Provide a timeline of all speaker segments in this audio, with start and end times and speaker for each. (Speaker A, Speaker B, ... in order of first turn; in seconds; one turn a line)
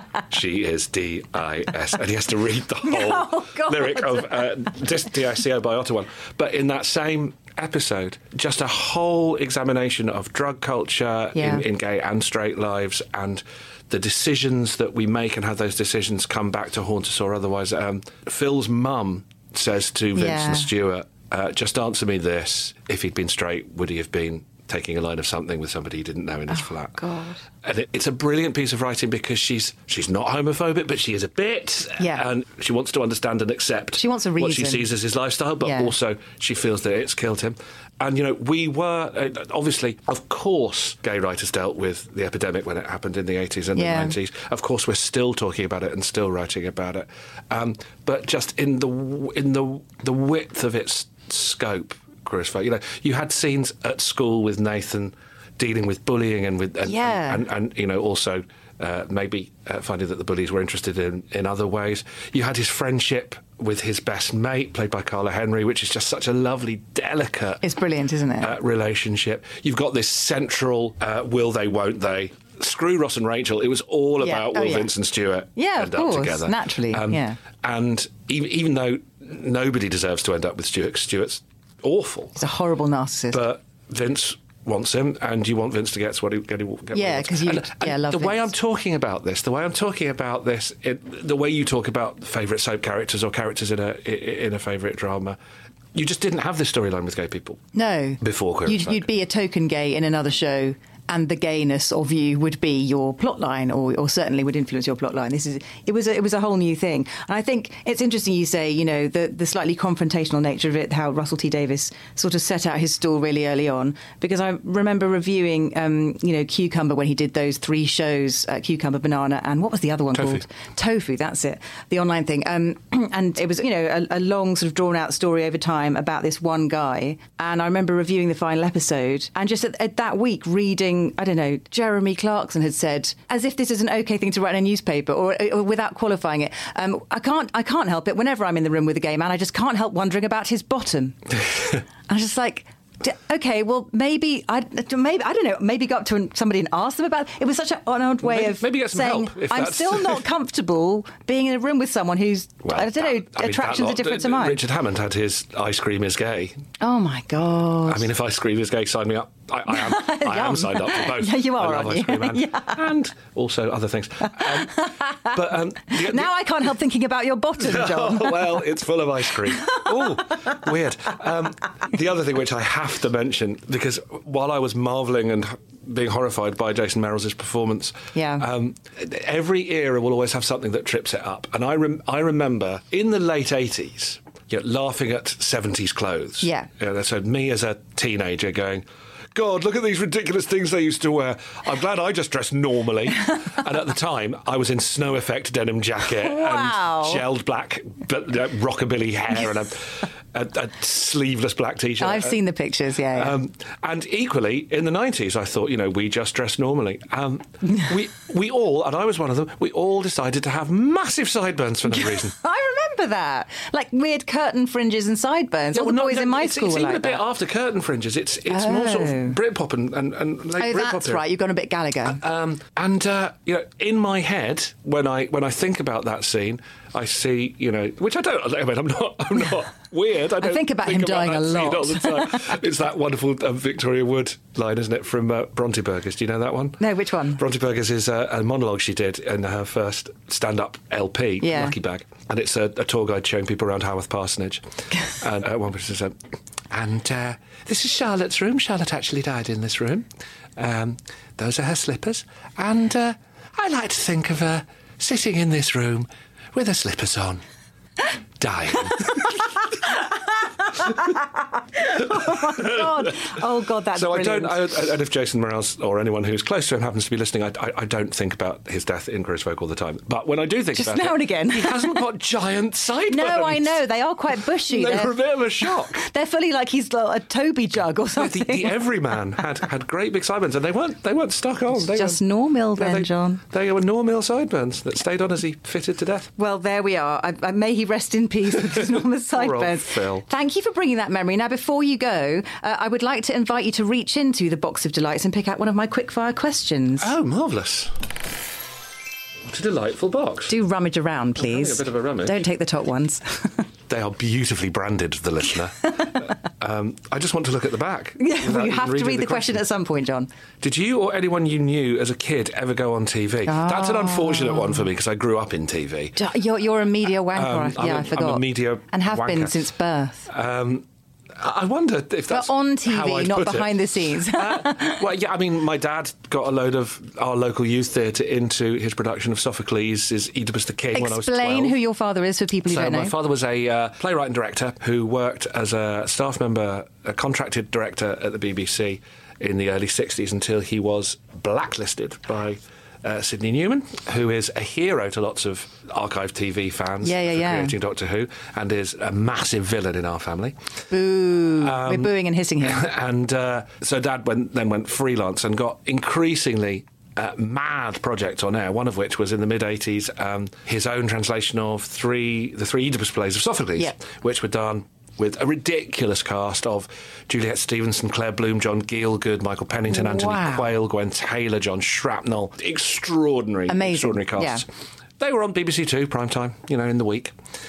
Speaker A: 0.3-27.0
Speaker B: 2.8-4.5
Speaker B: 11.4-11.6
Speaker B: 20.1-20.7
Speaker B: 26.9-27.4
Speaker A: 27.6-67.7
Speaker B: 32.0-32.2
Speaker B: 34.0-34.9
Speaker B: 35.6-35.9
Speaker B: 43.8-44.2
Speaker B: 56.9-57.4
Speaker B: 67.6-68.5
Speaker A: 68.4-82.4
Speaker B: 74.2-74.9
Speaker B: 75.6-77.4
Speaker B: 82.4-83.4
Speaker A: 83.3-95.4
Speaker B: 86.9-88.5
Speaker A: 95.9-97.6
Speaker B: 97.7-154.6
Speaker A: 98.2-99.1
Speaker A: 120.1-120.4
Speaker A: 148.2-150.2
Speaker A: 152.6-156.6
Speaker B: 156.8-158.1
Speaker A: 157.9-166.3
Speaker B: 159.7-162.8
Speaker B: 164.4-165.3
Speaker B: 165.9-168.7
Speaker A: 167.6-202.4
Speaker B: 169.5-169.8
Speaker B: 178.2-178.5
Speaker B: 186.4-186.7
Speaker B: 196.2-197.2
Speaker B: 202.0-203.4
Speaker A: 203.1-212.3
Speaker B: 212.0-217.2
Speaker A: 215.7-221.2
Speaker B: 218.5-219.4
Speaker B: 220.6-222.2
Speaker A: 222.1-246.2
Speaker B: 230.4-232.5
Speaker B: 236.8-237.4
Speaker B: 241.4-241.8
Speaker A: 246.7-257.4
Speaker A: 258.4-259.3
Speaker B: 261.8-264.6
Speaker A: 262.3-263.3
Speaker A: 263.9-276.0
Speaker B: 270.7-272.0
Speaker B: 273.1-275.2
Speaker B: 275.9-278.7
Speaker A: 278.2-286.3
Speaker B: 281.7-283.4
Speaker B: 286.4-297.1
Speaker A: 289.3-290.2
Speaker A: 297.0-297.9
Speaker A: 299.5-300.6
Speaker B: 300.5-303.7
Speaker A: 301.4-302.5
Speaker A: 303.9-309.6
Speaker B: 308.2-310.3
Speaker A: 310.6-316.2
Speaker B: 313.5-314.7
Speaker B: 316.2-320.3
Speaker A: 317.3-319.6
Speaker A: 320.3-320.9
Speaker A: 321.4-331.8
Speaker B: 322.3-325.0
Speaker B: 330.9-333.2
Speaker A: 332.7-350.6
Speaker B: 347.0-347.7
Speaker B: 350.9-352.9
Speaker A: 351.6-374.7
Speaker B: 369.9-370.7
Speaker B: 373.7-374.6
Speaker A: 375.2-377.3